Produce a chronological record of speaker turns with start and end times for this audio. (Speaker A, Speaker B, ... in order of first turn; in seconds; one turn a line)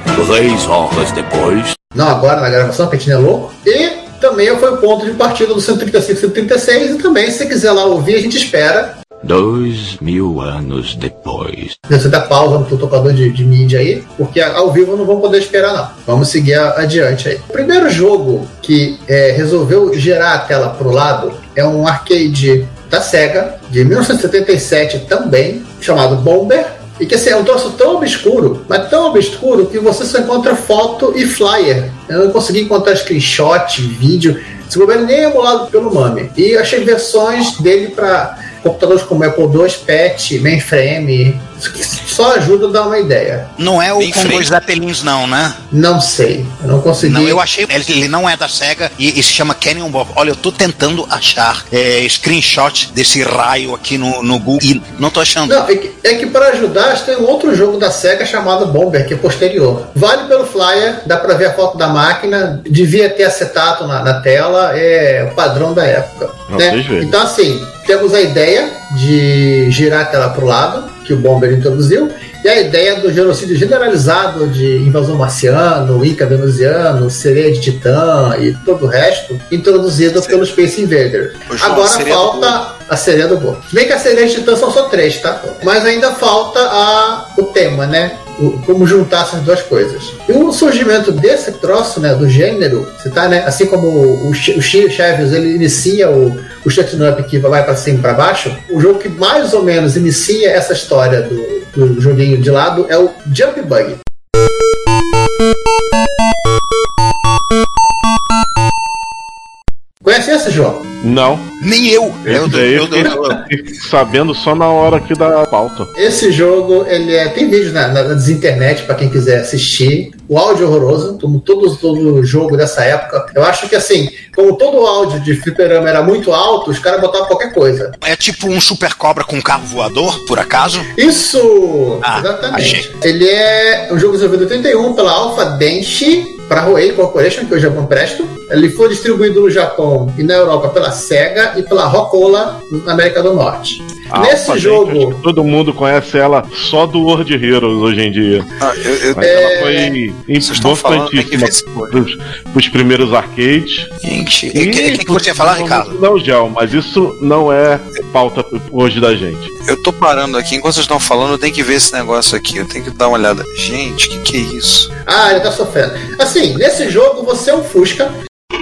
Speaker A: 0.1-1.7
Speaker B: 1.9-9.0
Speaker A: 9.2-11.7
Speaker B: 11.9-43.5
Speaker C: 43.6-45.6
Speaker D: 44.0-44.5
Speaker B: 45.7-47.4
Speaker C: 47.0-55.6
Speaker B: 55.5-104.0
Speaker E: 66.5-67.1
Speaker D: 81.5-82.6
Speaker B: 110.0-110.9
Speaker E: 111.0-111.5
Speaker C: 111.6-113.2
Speaker E: 112.2-115.9
Speaker B: 116.0-127.9
Speaker C: 128.0-130.9
Speaker B: 131.0-145.2
Speaker C: 132.0-132.9
Speaker E: 144.1-148.5
Speaker D: 148.6-149.6
Speaker E: 149.2-153.9
Speaker B: 149.2-149.9
Speaker D: 150.4-152.0
Speaker C: 154.0-155.9
Speaker E: 154.5-159.5
Speaker D: 159.6-164.9
Speaker B: 165.1-168.1